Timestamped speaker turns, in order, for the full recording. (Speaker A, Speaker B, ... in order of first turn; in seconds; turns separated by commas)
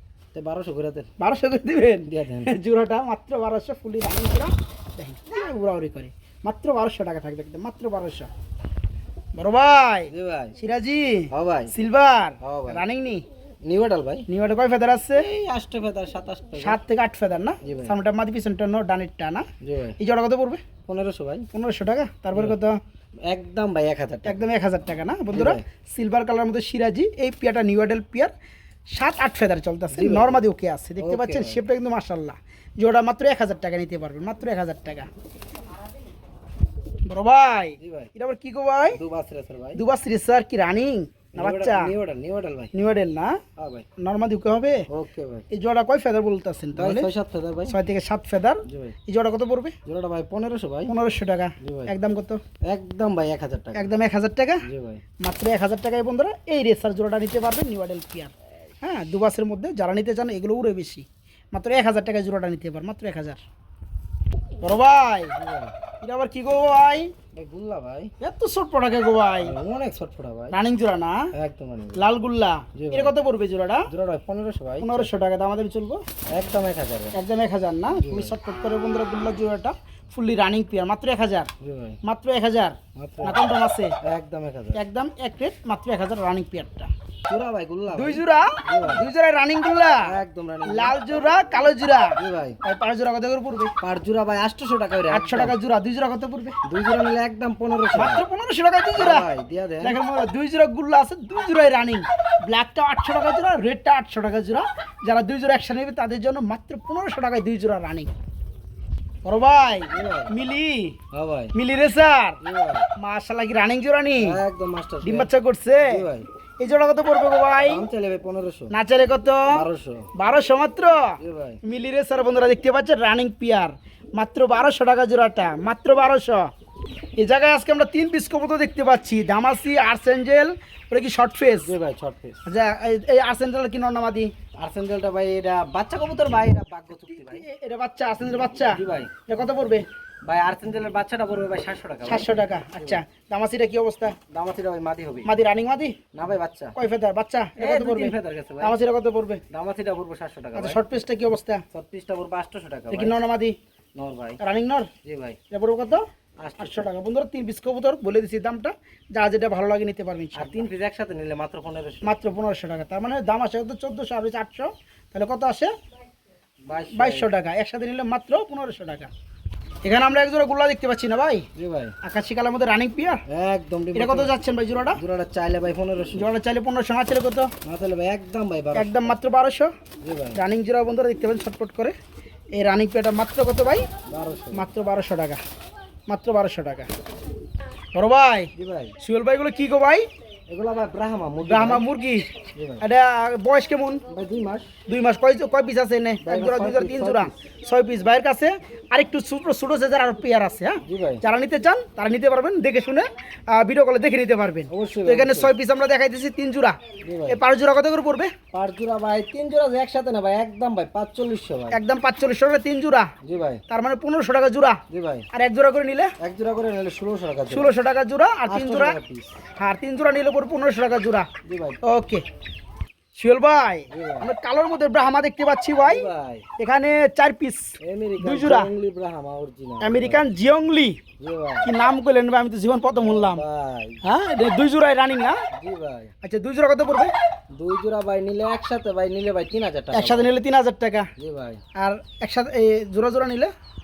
Speaker A: 0.3-1.1, Speaker B: 1.2-8.3, Speaker A: 2.1-2.5, Speaker B: 9.3-13.2, Speaker A: 10.1-10.5, Speaker A: 11.3-11.7, Speaker A: 12.4-12.8, Speaker A: 13.6-14.2, Speaker B: 14.3-15.2, Speaker A: 15.1-16.8, Speaker B: 16.6-19.5, Speaker A: 17.6-18.0, Speaker A: 19.6-20.0, Speaker B: 20.0-20.6, Speaker A: 20.9-21.5, Speaker B: 21.5-22.8, Speaker A: 23.2-24.4, Speaker B: 24.2-28.3, Speaker A: 25.3-25.6, Speaker B: 28.9-35.1, Speaker A: 29.9-30.4, Speaker A: 31.0-31.6, Speaker B: 37.1-39.0, Speaker A: 37.8-38.1, Speaker A: 38.9-39.8, Speaker B: 39.7-41.9, Speaker A: 41.3-42.7, Speaker B: 42.7-43.4, Speaker A: 43.6-43.9, Speaker B: 44.0-44.9, Speaker A: 44.9-45.5, Speaker B: 45.5-47.1, Speaker A: 46.7-47.8, Speaker B: 47.7-49.8, Speaker A: 48.7-48.9, Speaker A: 49.8-51.0, Speaker B: 50.9-52.4, Speaker A: 51.6-51.9, Speaker A: 52.6-53.9, Speaker B: 53.7-54.6, Speaker A: 54.6-55.0, Speaker B: 55.2-63.4, Speaker B: 64.6-65.4, Speaker A: 65.4-65.7, Speaker B: 66.0-67.1, Speaker A: 67.3-68.1, Speaker B: 68.2-69.6, Speaker A: 69.4-70.5, Speaker B: 70.5-71.3, Speaker A: 71.3-72.0, Speaker B: 71.9-73.9, Speaker A: 72.7-73.1, Speaker A: 73.9-75.1, Speaker B: 74.8-76.0, Speaker A: 76.3-77.2, Speaker B: 77.1-81.5, Speaker A: 78.0-78.3, Speaker A: 81.6-82.0, Speaker B: 82.0-84.0, Speaker A: 82.9-83.4, Speaker A: 84.0-84.8, Speaker B: 84.7-86.9, Speaker A: 87.3-89.1, Speaker B: 87.9-90.1, Speaker A: 90.0-91.0, Speaker B: 90.7-93.7, Speaker A: 92.2-92.6, Speaker A: 93.8-95.5, Speaker B: 95.1-96.6, Speaker A: 96.6-98.2, Speaker B: 97.9-99.3, Speaker A: 98.9-100.0, Speaker B: 99.8-108.1, Speaker B: 109.2-111.0, Speaker A: 109.9-110.3, Speaker A: 111.1-111.5, Speaker B: 111.5-112.4, Speaker A: 112.4-112.9, Speaker B: 113.0-114.4, Speaker A: 114.2-116.2, Speaker B: 115.0-116.0, Speaker B: 116.6-117.9, Speaker A: 117.6-118.7, Speaker B: 118.7-126.5, Speaker A: 119.5-120.1, Speaker A: 121.2-121.6, Speaker B: 127.2-131.7, Speaker A: 131.6-132.4, Speaker B: 132.4-134.3, Speaker A: 134.6-137.5, Speaker B: 137.1-139.8, Speaker A: 138.7-139.1, Speaker A: 140.2-143.0, Speaker B: 142.0-144.2, Speaker A: 144.3-145.3, Speaker B: 145.2-146.0, Speaker A: 146.1-146.8, Speaker B: 146.8-149.4, Speaker A: 147.6-148.8, Speaker A: 149.5-150.8, Speaker B: 150.5-151.6, Speaker A: 151.7-153.2, Speaker B: 152.9-153.6, Speaker A: 153.9-154.4, Speaker B: 154.4-154.9, Speaker A: 155.0-155.4, Speaker B: 155.5-156.1, Speaker A: 156.4-156.9, Speaker B: 156.6-160.7, Speaker A: 160.3-162.2, Speaker B: 162.0-165.7, Speaker A: 166.6-167.3, Speaker B: 166.9-169.1, Speaker B: 169.8-171.5, Speaker A: 171.6-171.9, Speaker B: 172.0-173.2, Speaker A: 173.3-174.3, Speaker B: 173.9-175.0, Speaker A: 174.9-176.3, Speaker B: 176.1-177.5, Speaker A: 177.6-179.2, Speaker B: 178.7-179.7, Speaker A: 180.0-180.4, Speaker B: 180.3-181.9, Speaker B: 182.5-183.8, Speaker A: 184.1-184.7, Speaker B: 184.5-185.4, Speaker B: 186.1-186.9, Speaker B: 187.9-190.0, Speaker A: 188.5-188.9, Speaker A: 190.5-191.8, Speaker B: 191.4-194.0, Speaker A: 192.5-192.8, Speaker A: 194.1-194.7, Speaker B: 194.9-208.3, Speaker A: 196.2-197.3, Speaker A: 200.8-201.2, Speaker A: 204.7-205.5, Speaker A: 207.0-207.4, Speaker A: 208.5-211.8, Speaker B: 211.7-213.1, Speaker A: 213.2-213.6, Speaker B: 213.7-216.1, Speaker A: 214.9-215.2, Speaker A: 216.2-217.8, Speaker B: 217.5-219.0, Speaker A: 218.5-219.4, Speaker B: 219.6-221.3, Speaker A: 221.4-221.8, Speaker B: 221.8-222.2, Speaker B: 223.1-228.7, Speaker A: 223.9-224.3, Speaker A: 225.8-226.4, Speaker A: 227.8-230.2, Speaker B: 229.8-231.0, Speaker A: 231.2-231.7, Speaker B: 231.6-233.4, Speaker A: 232.9-234.0, Speaker B: 234.0-235.4, Speaker A: 235.5-236.1, Speaker B: 236.2-237.1, Speaker A: 237.5-240.3, Speaker B: 239.9-241.1, Speaker A: 241.2-241.6, Speaker B: 241.8-243.5